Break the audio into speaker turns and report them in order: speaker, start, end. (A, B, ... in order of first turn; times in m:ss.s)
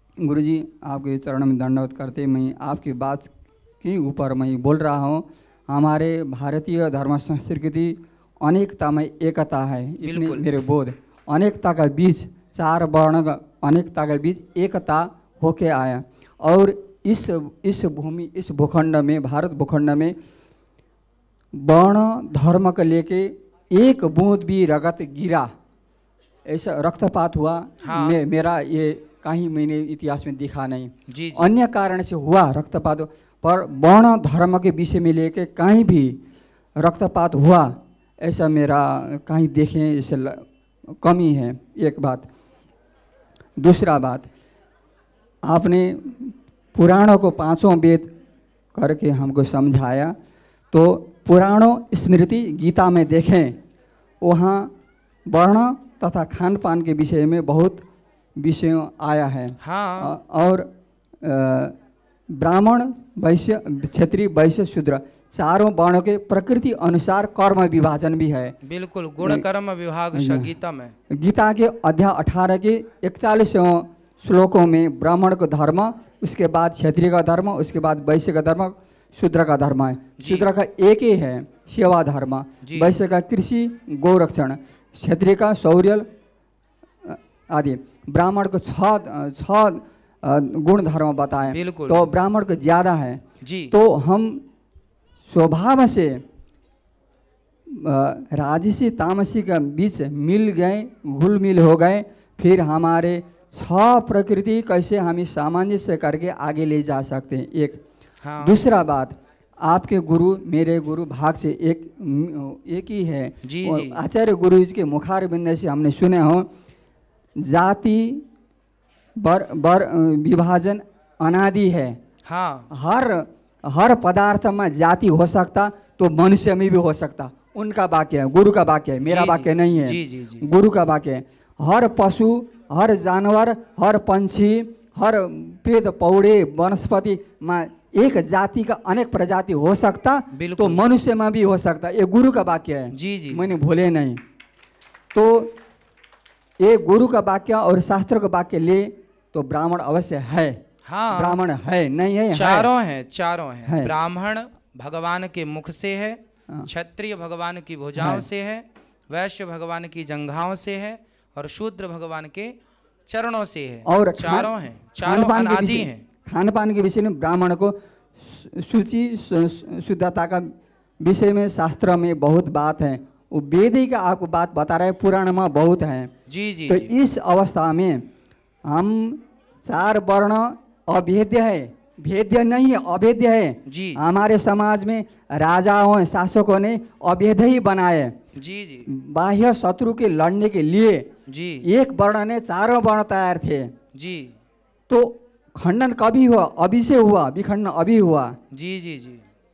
0:00.2-0:20.2 A
0:10.0-0:10.5 B
0:21.5-0:25.5 A
0:26.5-0:36.2 A
0:27.8-0:28.2 B
0:31.1-0:31.5 B
0:36.8-0:40.5 A
0:41.0-0:42.3 A
0:43.6-0:44.3 A
0:45.4-0:48.1 A
0:48.7-0:50.1 A
0:50.7-0:53.6 A
0:54.2-0:54.7 A
0:55.3-0:57.9 A
0:58.4-1:00.7 A
0:59.6-1:00.2 B
1:01.2-1:01.8 A
1:02.3-1:08.6 A
1:08.6-1:10.9 B
1:10.1-1:10.5 A
1:11.1-1:26.1 A
1:20.2-1:20.5 B
1:22.6-1:23.0 B
1:27.0-1:34.4 A
1:31.5-1:32.1 B
1:33.4-1:33.8 B
1:35.3-1:36.2 A
1:37.7-1:47.8 A
1:48.2-1:48.6 B
1:48.4-1:56.5 A
1:53.4-1:54.0 B
1:57.4-1:58.2 A
1:59.2-2:02.0 A
2:02.3-2:02.7 B
2:02.7-2:24.2 A
2:09.0-2:10.5 B
2:20.3-2:20.8 B
2:22.9-2:23.5 B
2:25.1-2:25.6 A
2:26.6-2:30.6 A
2:30.8-2:31.4 B
2:31.1-2:32.7 A
2:32.3-2:46.0 B
2:33.6-2:33.9 A
2:38.0-2:38.3 A
2:43.9-2:56.1 A
2:56.3-2:56.9 B
2:56.7-2:58.0 A
2:58.6-3:08.2 A
3:03.7-3:04.0 B
3:08.4-3:08.9 B
3:08.9-3:11.1 A
3:11.3-3:11.7 B
3:11.6-3:13.7 A
3:14.0-3:14.4 B
3:14.9-3:18.4 A
3:18.5-3:19.2 B